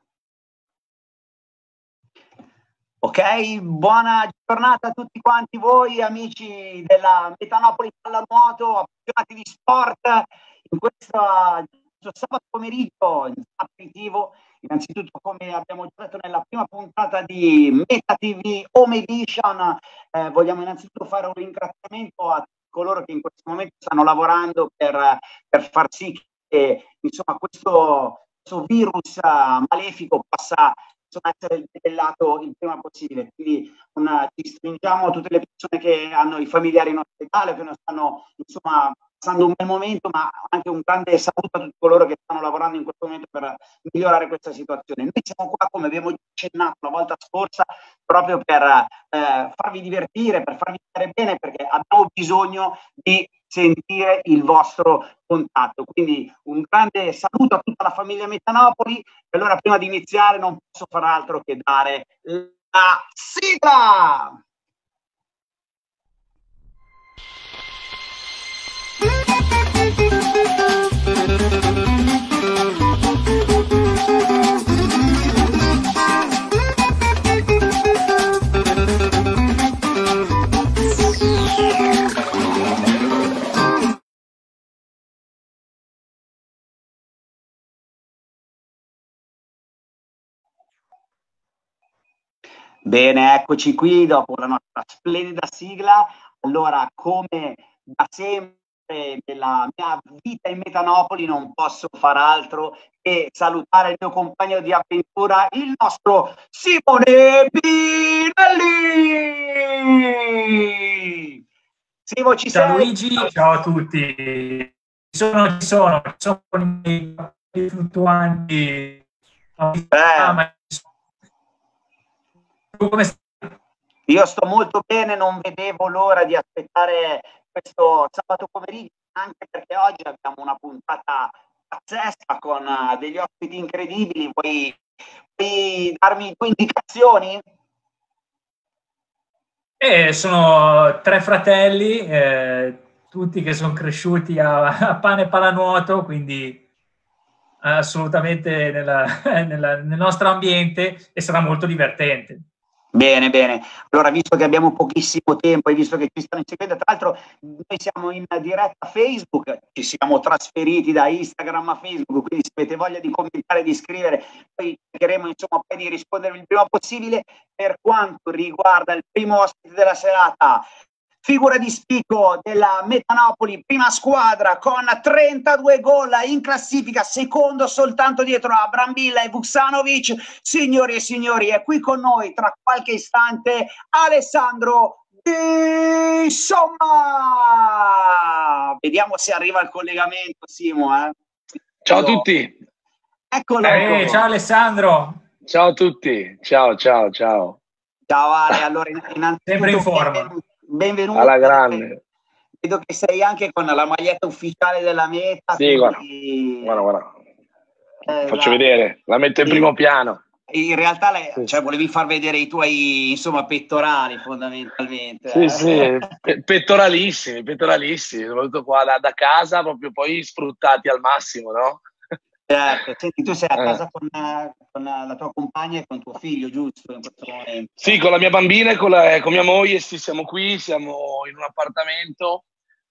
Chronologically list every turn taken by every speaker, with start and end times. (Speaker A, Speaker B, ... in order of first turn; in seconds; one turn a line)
Speaker A: 3.0-64.4
Speaker A: 92.8-111.3
Speaker A: 112.1-113.3
Speaker B: 112.5-119.0
Speaker B: 119.6-120.8
Speaker A: 119.9-120.4
Speaker B: 122.8-123.5
Speaker A: 124.1-134.8
Speaker A: 135.3-137.4
Speaker B: 139.8-146.6
Speaker B: 147.6-152.4
Speaker A: 152.9-170.7
Speaker A: 171.2-191.2
Speaker C: 191.8-192.6
Speaker A: 191.9-192.2
Speaker A: 193.3-194.2
Speaker C: 193.6-194.2
Speaker B: 193.6-195.2
Speaker C: 195.4-197.6
Speaker A: 198.1-201.8
Speaker B: 199.5-200.3
Speaker C: 201.1-202.0
Speaker A: 202.6-206.8
Speaker C: 205.6-206.0
Speaker C: 206.6-207.1
Speaker A: 208.1-208.6
Speaker C: 208.3-210.2
Speaker A: 210.5-215.9
Speaker C: 215.3-221.8
Speaker A: 222.5-227.8
Speaker C: 227.8-232.4